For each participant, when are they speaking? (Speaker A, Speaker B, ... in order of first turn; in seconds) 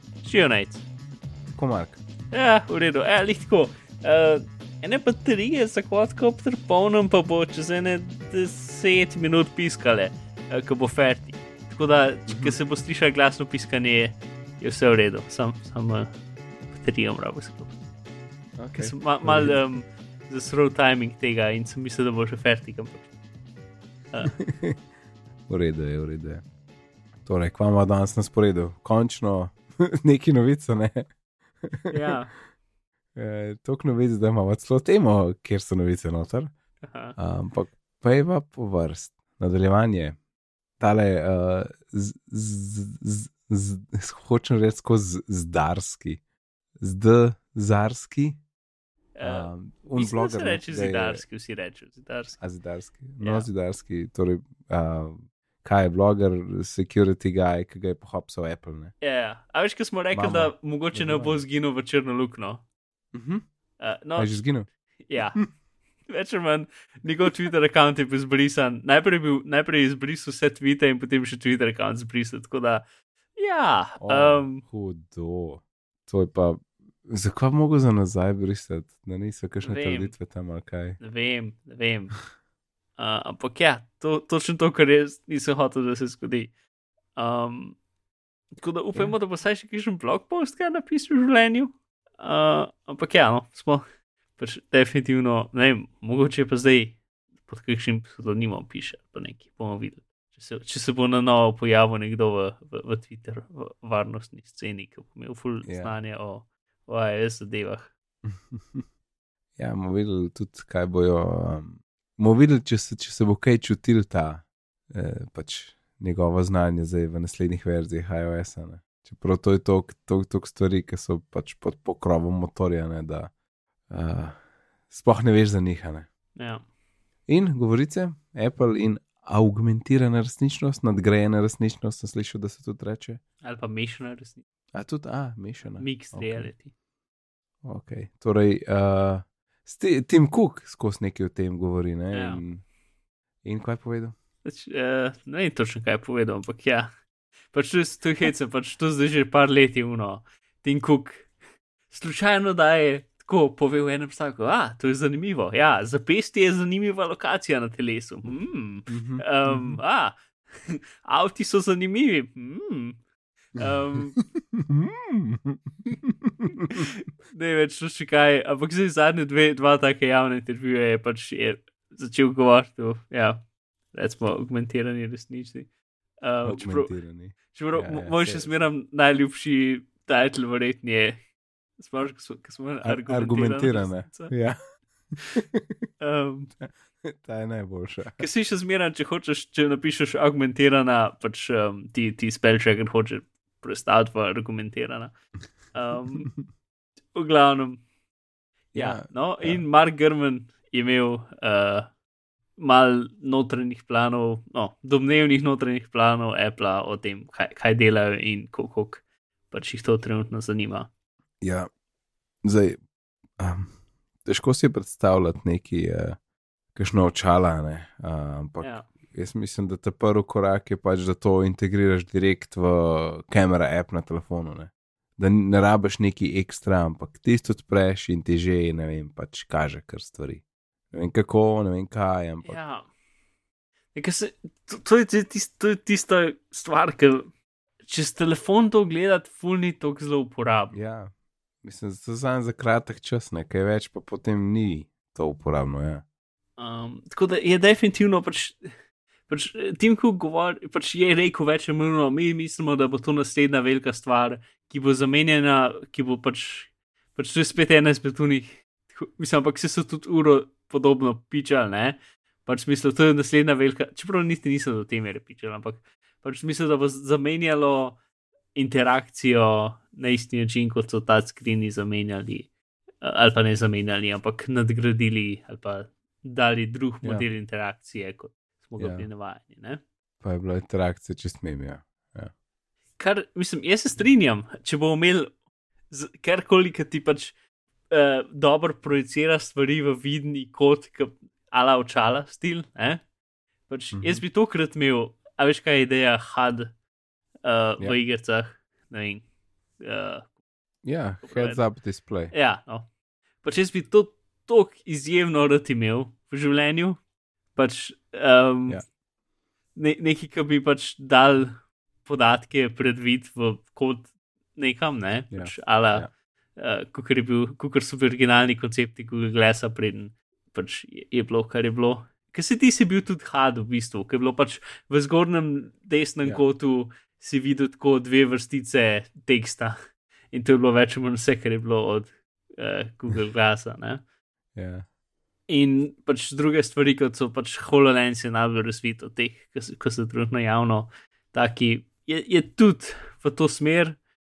Speaker A: 0.2-0.9, 2.3-16.1, 16.7-17.8, 18.8-23.1, 24.1-24.4, 31.9-32.3, 36.8-37.2, 49.2-52.4, 53.2-53.5, 59.0-62.6, 63.8-64.5, 65.0-65.4, 66.1-72.8, 73.4-74.6, 79.6-80.2, 81.0-82.2, 83.0-86.5, 87.2-87.8, 88.6-93.8, 94.4-107.9, 126.4-126.6, 133.4-134.4, 135.8-136.7, 142.1-142.4, 144.4-146.9, 147.5-151.3, 151.9-163.0, 163.5-164.2, 166.7-175.7, 176.2-176.9, 177.5-181.2, 181.8-184.3, 186.0-186.5, 188.2-195.2, 195.7-196.3, 197.1-197.8, 198.7-201.9, 202.6-210.9, 218.6-218.9, 232.4-232.9, 233.9-237.3, 237.8-240.8, 246.6-248.7, 249.3-268.0, 268.6-272.5, 273.0-279.8, 283.0-285.3, 285.9-287.4, 287.9-293.0, 293.7-296.7, 297.4-299.2, 299.8-300.3, 301.2-301.6, 302.3-302.9, 303.4-307.0, 307.6-308.8, 309.8-329.8, 330.3-334.0, 335.5-344.0
Speaker B: 1.5-2.0, 12.3-12.6, 18.6-19.6, 24.3-24.8, 25.5-26.4, 27.2-31.1, 31.6-32.1, 33.1-36.5, 37.2-40.2, 40.8-46.2, 46.8-48.4, 49.2-51.2, 52.4-58.9, 60.1-61.4, 63.1-63.4, 64.2-64.7, 74.0-81.0, 105.7-106.0, 108.2-108.8, 109.6-123.3, 123.9-124.4, 124.9-126.1, 127.3-133.2, 134.7-136.5, 137.6-142.6, 143.4-144.2, 158.9-159.8, 164.2-166.8, 176.4-178.7, 182.8-184.6, 185.4-185.7, 186.6-188.2, 198.7-199.6, 211.4-211.7, 212.4-212.8, 213.4-213.7, 214.2-216.2, 216.8-232.6, 240.7-241.1, 241.6-246.0, 278.8-279.1, 280.2-282.3, 293.9-294.2, 300.8-302.3, 315.3-316.1, 334.6-334.9